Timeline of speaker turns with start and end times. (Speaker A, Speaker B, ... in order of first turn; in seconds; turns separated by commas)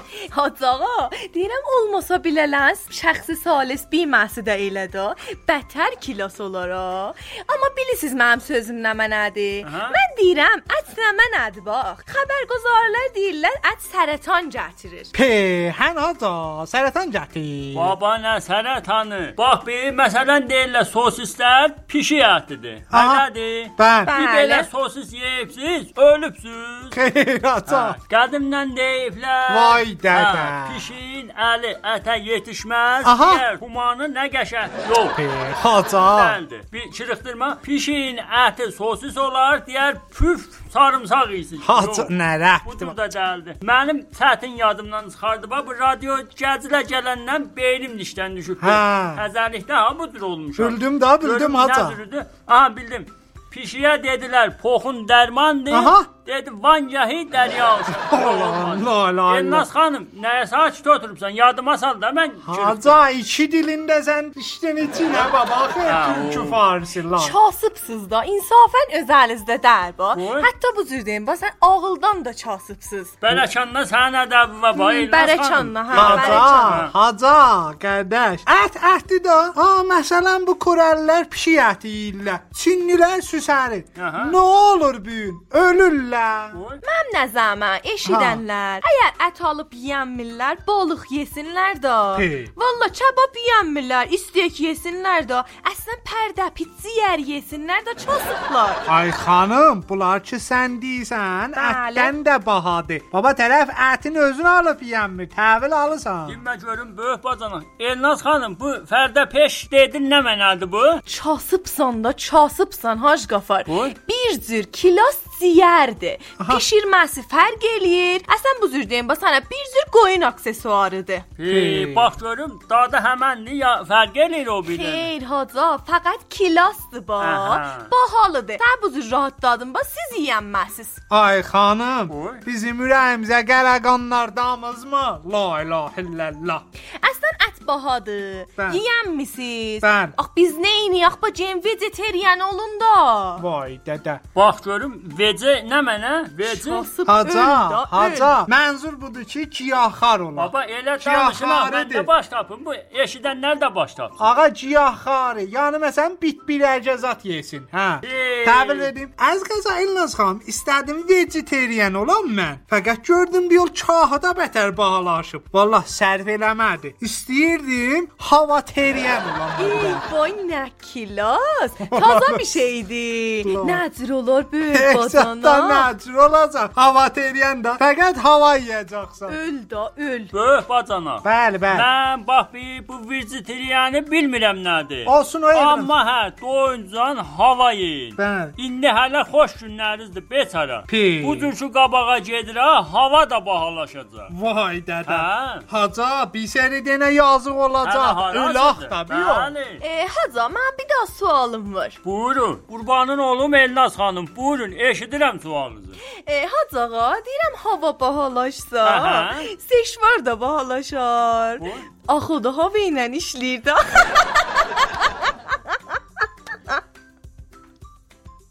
Speaker A: 0.3-15.1, Speaker B: 9.6-10.0, Speaker C: 15.1-17.9, Speaker B: 17.7-27.0, Speaker C: 22.9-23.3, Speaker C: 23.8-24.1, Speaker A: 24.1-24.7, Speaker C: 26.9-28.0, Speaker B: 27.7-35.2, Speaker C: 29.5-30.8, Speaker C: 33.0-33.4, Speaker C: 35.2-36.4, Speaker B: 36.0-42.1, Speaker C: 41.6-42.9, Speaker B: 42.6-63.0, Speaker C: 48.6-49.2, Speaker C: 50.6-52.0, Speaker C: 55.7-56.1, Speaker C: 58.0-59.7, Speaker C: 62.5-67.3, Speaker B: 65.8-66.6, Speaker A: 67.2-73.2, Speaker B: 70.2-70.5, Speaker B: 73.2-76.9, Speaker A: 74.8-76.8, Speaker C: 75.9-86.6, Speaker B: 84.0-84.4, Speaker B: 86.5-86.8, Speaker A: 86.8-98.9, Speaker C: 88.1-88.4, Speaker C: 92.2-92.5, Speaker C: 98.9-106.4, Speaker A: 101.5-102.1, Speaker B: 106.3-111.0, Speaker A: 111.1-121.3, Speaker B: 113.7-113.9, Speaker B: 121.4-125.1, Speaker C: 121.5-122.1, Speaker A: 124.7-131.0, Speaker B: 127.2-127.9, Speaker C: 131.1-136.6, Speaker B: 132.1-132.4, Speaker A: 137.0-143.4, Speaker C: 138.6-138.8, Speaker C: 139.8-140.1, Speaker C: 143.4-144.2, Speaker B: 144.4-146.9, Speaker A: 146.4-148.4, Speaker C: 147.1-152.1, Speaker B: 150.4-154.2, Speaker C: 154.2-170.1, Speaker B: 158.0-158.9, Speaker A: 169.6-175.9, Speaker C: 171.9-172.6, Speaker C: 173.4-173.8, Speaker C: 174.7-179.3, Speaker A: 179.3-180.3, Speaker B: 180.3-194.3, Speaker C: 181.2-181.9, Speaker C: 185.1-185.9, Speaker C: 188.2-188.5, Speaker C: 190.9-191.5, Speaker C: 194.3-199.5, Speaker B: 195.1-195.7, Speaker B: 197.8-199.8, Speaker A: 199.8-202.0, Speaker B: 202.0-206.0, Speaker A: 206.1-214.5, Speaker B: 208.8-209.5, Speaker B: 211.6-211.9